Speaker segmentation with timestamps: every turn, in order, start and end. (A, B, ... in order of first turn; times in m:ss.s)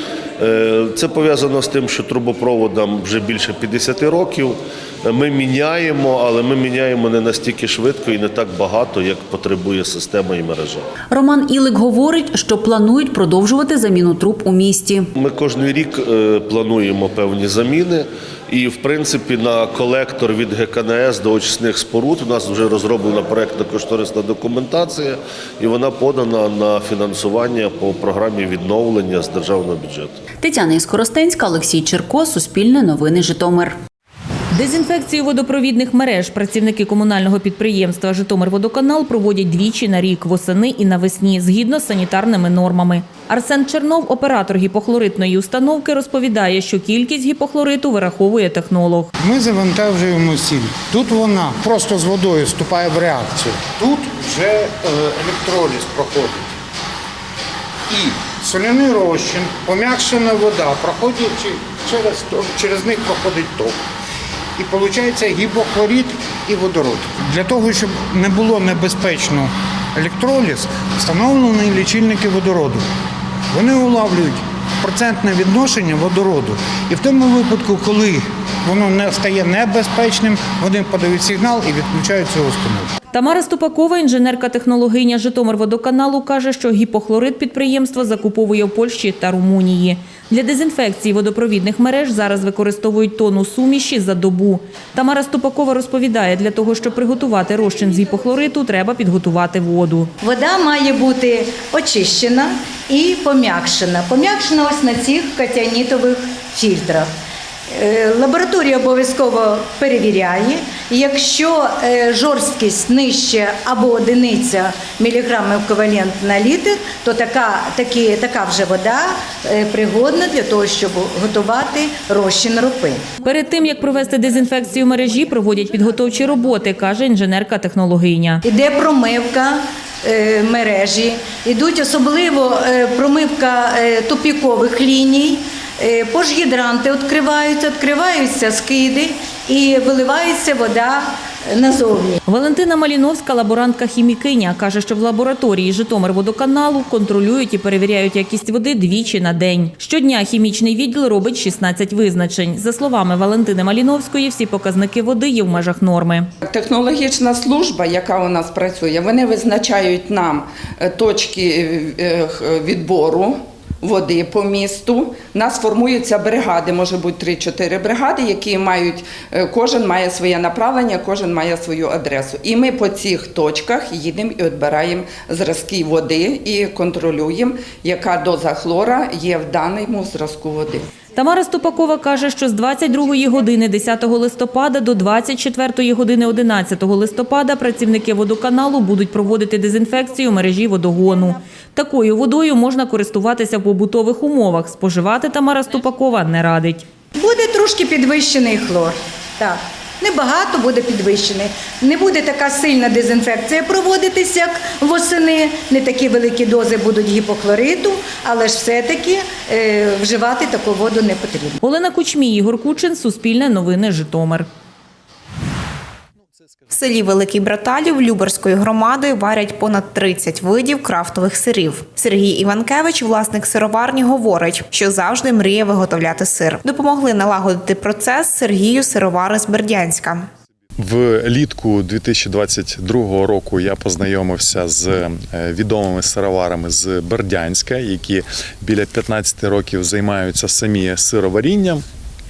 0:00.4-0:10.9 A
0:11.1-0:15.1 B
0:15.2-0:30.2 A
0:30.4-0:33.8 B
0:34.5-0:49.1 C
0:49.2-0:56.4 D
0:57.9-1:03.8 D
1:04.6-1:12.8 D
1:13.5-1:22.9 D
1:23.1-1:40.1 C
1:40.2-1:47.1 E
1:47.8-2:03.0 E
2:03.2-2:08.4 C
2:08.5-2:22.2 E
2:22.3-2:36.3 C
2:36.5-2:43.3 F
2:43.8-3:00.8 F
3:01.2-3:16.9 C
3:17.2-3:31.6 E
3:31.6-3:34.5 C
3:36.7-3:50.2 G
3:50.8-4:01.8 H